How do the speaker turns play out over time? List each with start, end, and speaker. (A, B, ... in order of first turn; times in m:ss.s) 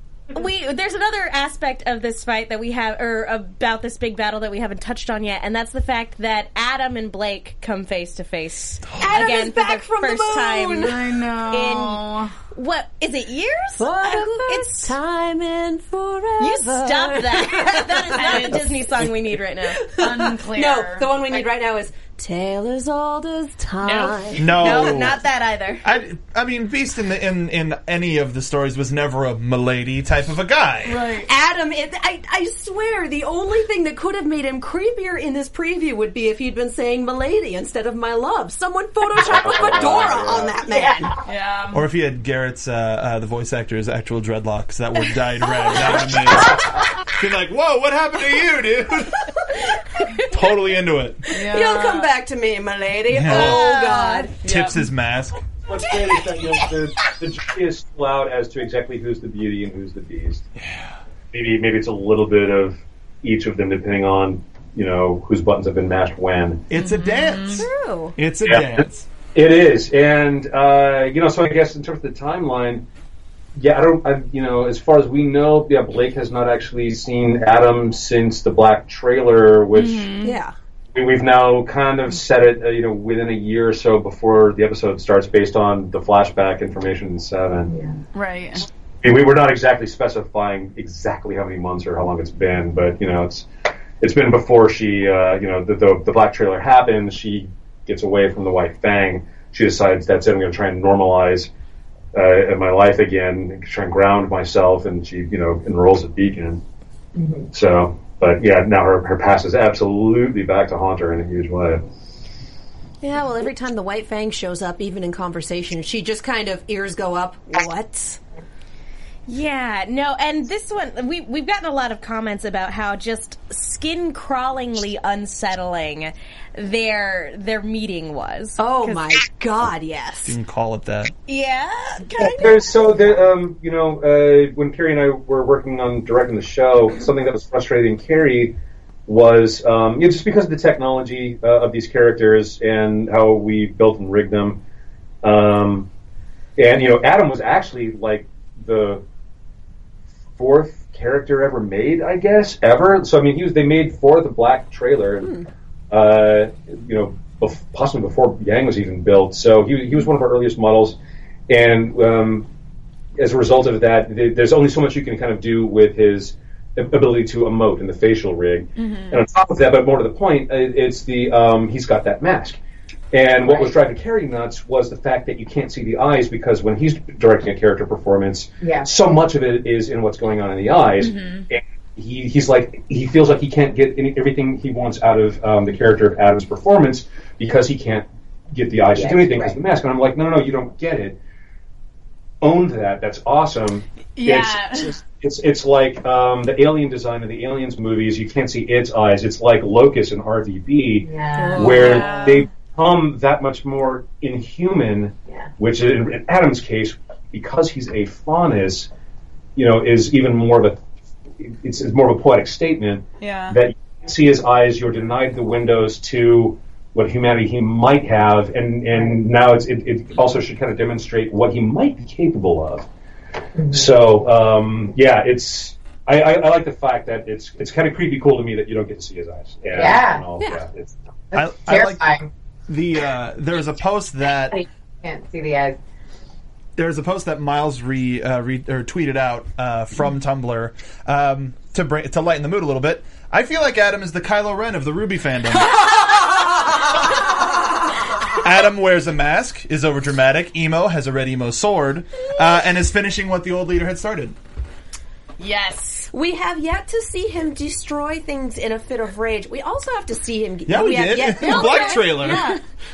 0:00.3-0:10.9 A
0:09.0-0:11.0 B
0:10.8-0:12.3 C
0:11.5-0:14.9 A
0:13.8-0:19.1 B
0:16.4-0:19.8 A
0:19.7-0:25.0 B
0:20.0-0:21.3 C
0:23.8-0:24.4 C
0:24.4-0:25.2 D
0:24.4-0:25.9 A
0:25.8-0:31.1 D
0:30.8-0:31.3 C
0:31.2-0:41.2 B
0:39.2-0:40.6 E
0:41.2-0:41.8 C
0:41.7-0:49.3 D
0:50.2-0:51.4 D
0:51.3-0:52.1 C
0:51.3-0:54.3 B
0:53.1-0:53.7 D
0:53.3-0:54.3 A
0:54.4-0:54.8 C
0:54.4-0:55.4 D
0:55.6-1:00.5 E
0:55.8-0:56.7 B
1:00.6-1:00.9 D
1:01.3-1:06.7 E
1:06.7-1:09.1 D
1:06.7-1:07.6 C
1:07.5-1:08.1 B
1:08.4-1:08.8 E
1:09.3-1:12.8 E
1:13.6-1:20.1 E
1:19.7-1:20.4 C
1:20.2-1:20.5 B
1:20.9-1:27.7 E
1:28.1-1:28.7 C
1:29.0-1:33.5 E
1:34.0-1:41.5 E
1:42.1-1:46.6 E
1:47.2-1:47.5 F
1:47.5-1:51.8 E
1:53.0-1:58.2 B
1:59.3-2:09.1 A
2:08.6-2:10.4 B
2:10.2-2:11.1 D
2:11.3-2:12.6 A
2:12.3-2:24.6 E
2:25.2-2:25.9 E
2:26.6-2:29.0 E
2:30.4-2:35.4 E
2:35.2-2:35.5 B
2:35.9-2:41.0 E
2:41.5-2:42.5 E
2:43.2-2:52.6 E
2:48.8-2:49.2 C
2:53.1-3:11.2 E
2:53.4-2:53.7 F
2:58.6-2:58.9 F
3:01.0-3:01.5 C
3:08.9-3:09.6 F
3:12.4-3:28.9 E
3:14.2-3:15.0 C
3:21.0-3:22.0 F
3:21.3-3:22.4 B
3:21.6-3:22.4 C
3:29.6-3:30.8 E
3:31.4-3:42.9 E
3:33.2-3:33.6 C
3:43.6-3:51.0 E
3:49.7-3:50.2 F
3:50.4-3:50.6 B
3:51.3-3:52.3 F
3:51.3-3:52.1 D
3:52.7-3:54.6 D
3:54.5-3:55.8 F
3:56.8-4:05.8 D
4:08.4-4:14.4 D
4:15.4-4:16.1 C
4:16.1-4:22.5 B
4:20.7-4:22.6 D
4:21.4-4:22.6 C